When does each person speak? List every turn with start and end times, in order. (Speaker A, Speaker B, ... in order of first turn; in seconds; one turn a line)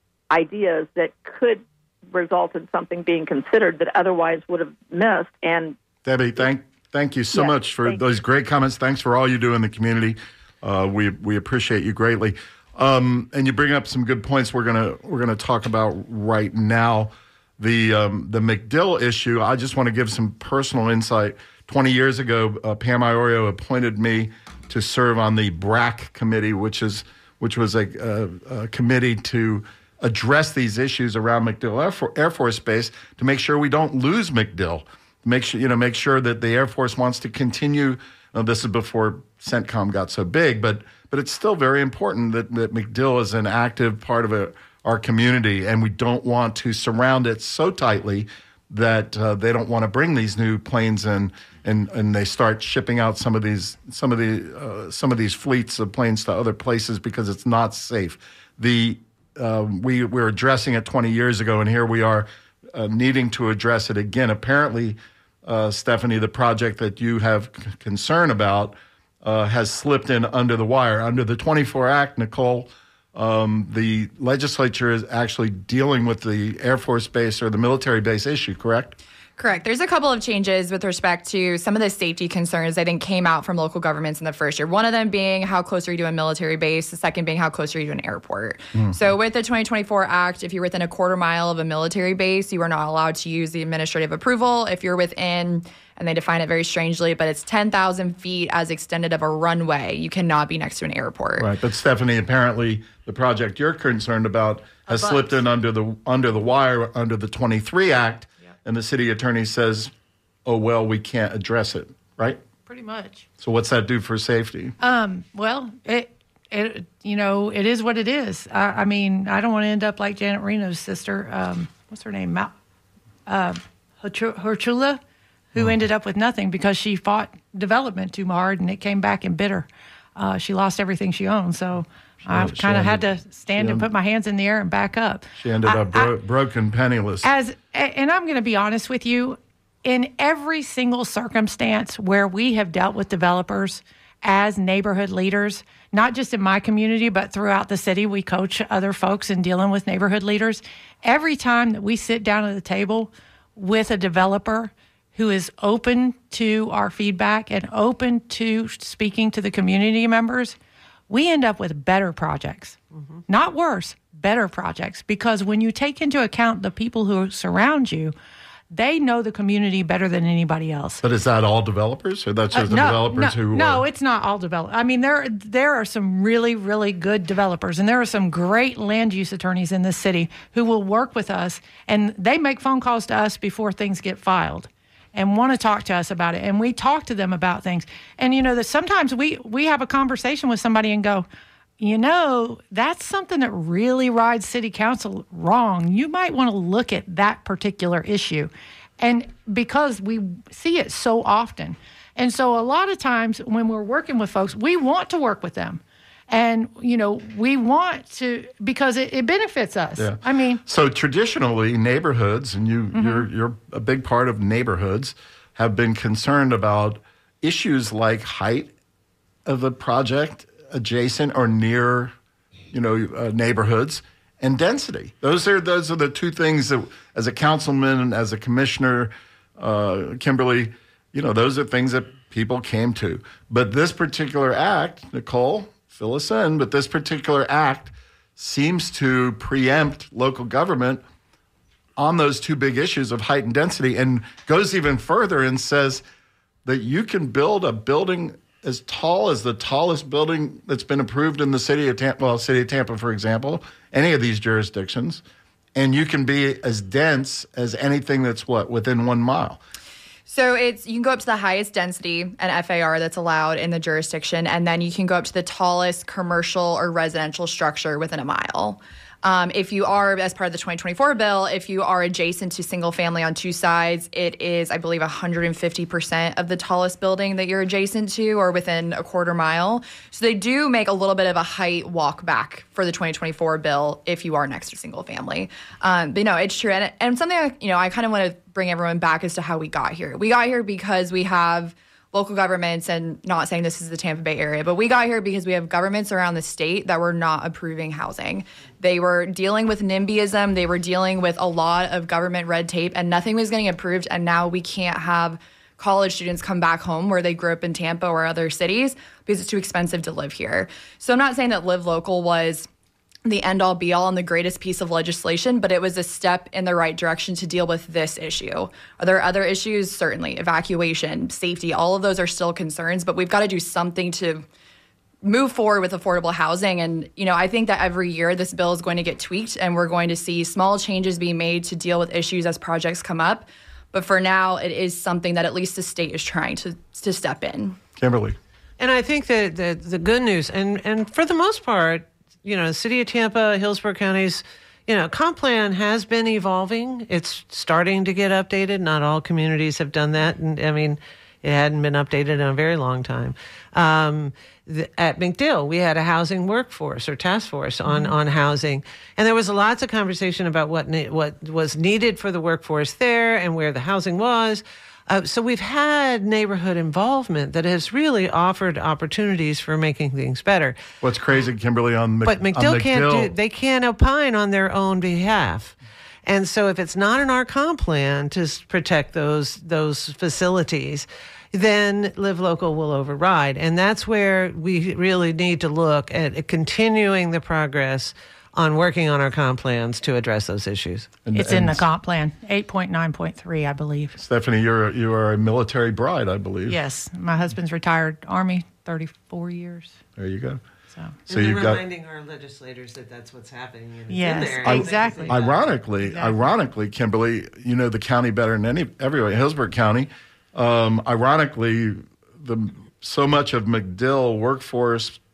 Speaker A: 0.3-5.8
Speaker B: 6.0-79.0
Speaker A: 7.3-8.0
Speaker C: 79.4-101.5
Speaker B: 101.4-109.9
Speaker D: 104.9-105.3
Speaker B: 110.4-112.4
Speaker D: 112.7-113.3
Speaker B: 113.4-114.7
Speaker D: 114.8-122.5
Speaker D: 123.3-125.0
Speaker D: 125.5-136.1
Speaker B: 132.2-133.0
Speaker B: 133.5-133.9
Speaker B: 135.4-137.3
Speaker D: 137.2-160.6
Speaker D: 161.1-162.8
Speaker D: 163.3-168.1
Speaker D: 168.7-171.0
Speaker B: 171.0-173.8
Speaker D: 172.5-191.2
Speaker D: 191.8-210.6
Speaker B: 210.0-218.7
Speaker D: 212.9-213.2
Speaker B: 219.4-222.1
Speaker B: 222.7-241.0
Speaker B: 242.0-246.0
Speaker B: 246.6-255.2
Speaker B: 255.7-259.6
Speaker C: 260.3-312.7
Speaker C: 313.2-324.4
Speaker C: 325.2-337.8
Speaker B: 338.0-338.4
Speaker E: 338.8-370.8
Speaker D: 357.9-358.1
Speaker B: 371.0-373.3
Speaker E: 372.2-391.1
Speaker B: 391.2-391.8
Speaker D: 391.3-394.2
Speaker B: 394.2-396.8
Speaker D: 396.7-399.9
Speaker B: 400.2-400.6
Speaker B: 401.3-401.8
Speaker E: 401.3-405.6
Speaker D: 404.1-405.4
Speaker B: 404.6-415.2
Speaker D: 406.0-406.3